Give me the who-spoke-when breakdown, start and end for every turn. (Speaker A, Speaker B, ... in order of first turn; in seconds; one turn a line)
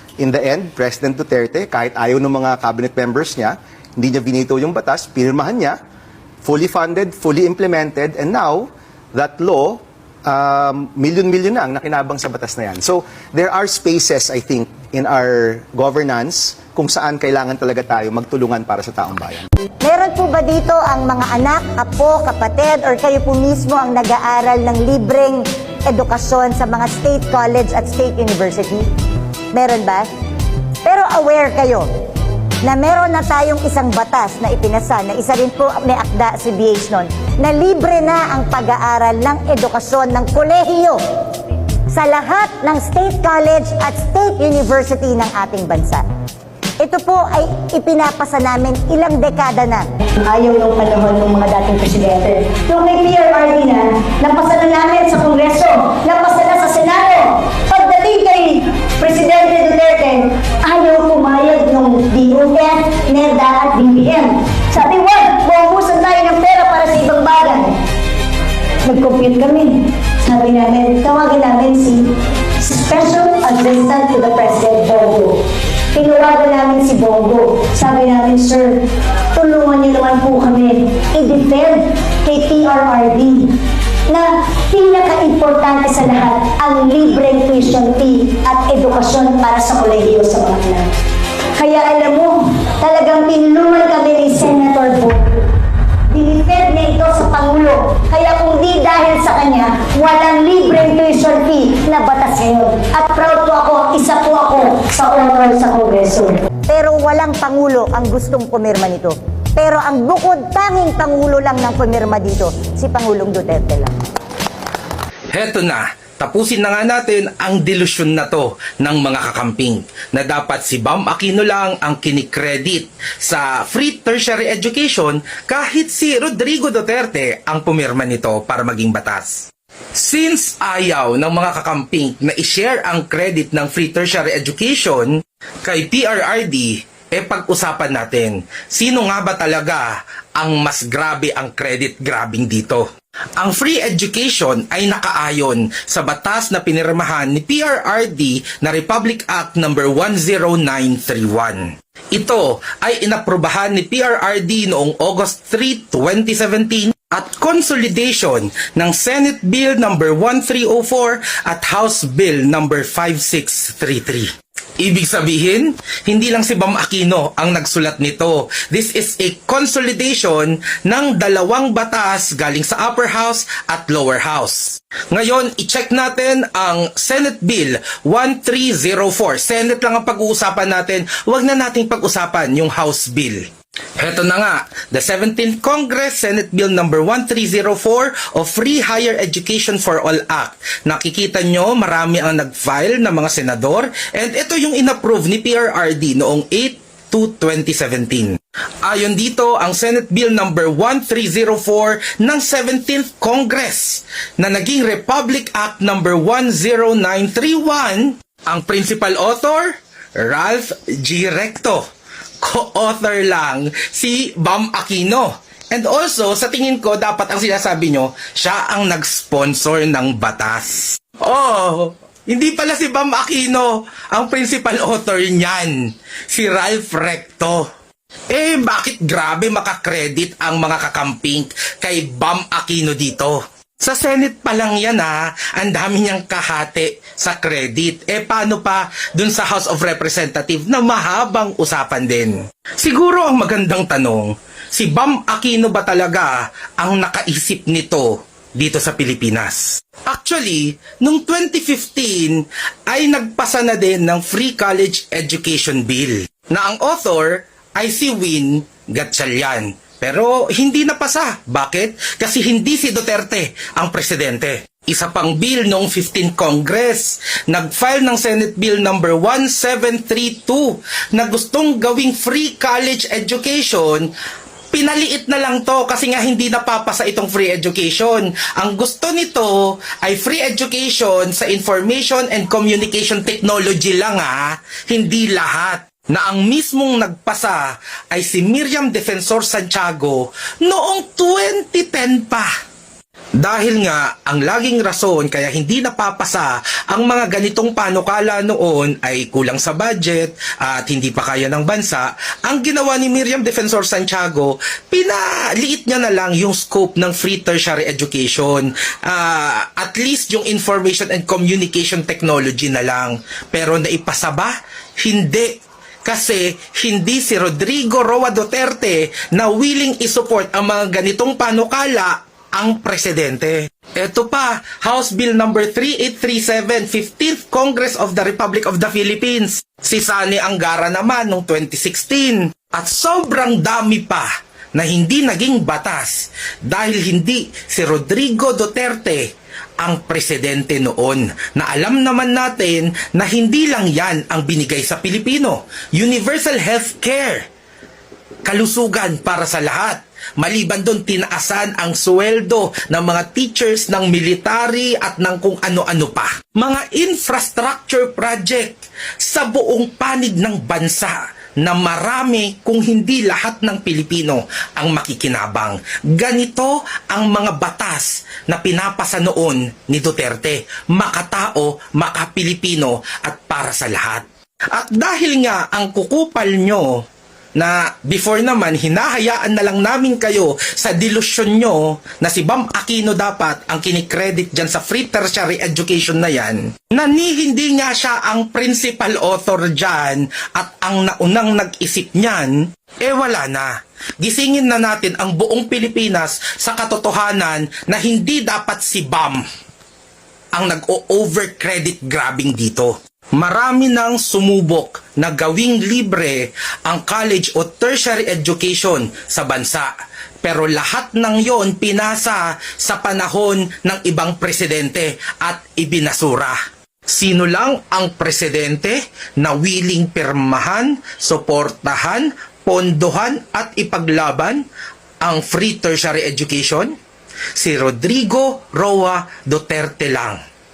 Speaker A: 0.2-5.8
Speaker A: 6.4-19.4
Speaker B: 19.8-28.9
Speaker B: 29.5-30.1
Speaker B: 30.8-31.9
Speaker B: 32.6-41.0
Speaker B: 41.9-46.0
Speaker B: 46.8-49.9
Speaker C: 50.2-67.7
Speaker B: 66.2-66.7
Speaker C: 68.9-72.0
Speaker B: 71.4-71.8
Speaker C: 72.6-75.3
Speaker B: 76.0-77.2
Speaker C: 76.0-78.7
Speaker C: 79.4-81.5
Speaker B: 81.1-81.8
Speaker B: 82.3-83.3
Speaker C: 82.4-83.5
Speaker B: 84.7-85.9
Speaker C: 85.0-86.9
Speaker B: 86.7-90.4
Speaker C: 87.4-90.9
Speaker C: 91.6-95.4
Speaker B: 93.3-93.5
Speaker C: 96.2-106.5
Speaker B: 96.5-97.3
Speaker B: 106.7-113.9
Speaker D: 115.3-142.8
Speaker D: 143.4-183.4
Speaker D: 184.0-211.8
Speaker D: 212.4-227.7
Speaker D: 228.3-274.1
Speaker D: 274.7-292.5
Speaker D: 293.4-347.4
Speaker D: 348.4-377.0
Speaker D: 377.6-399.4
Speaker D: 400.5-409.9
Speaker D: 410.4-416.6
Speaker D: 417.1-424.6
Speaker D: 425.2-426.9
Speaker D: 427.5-430.4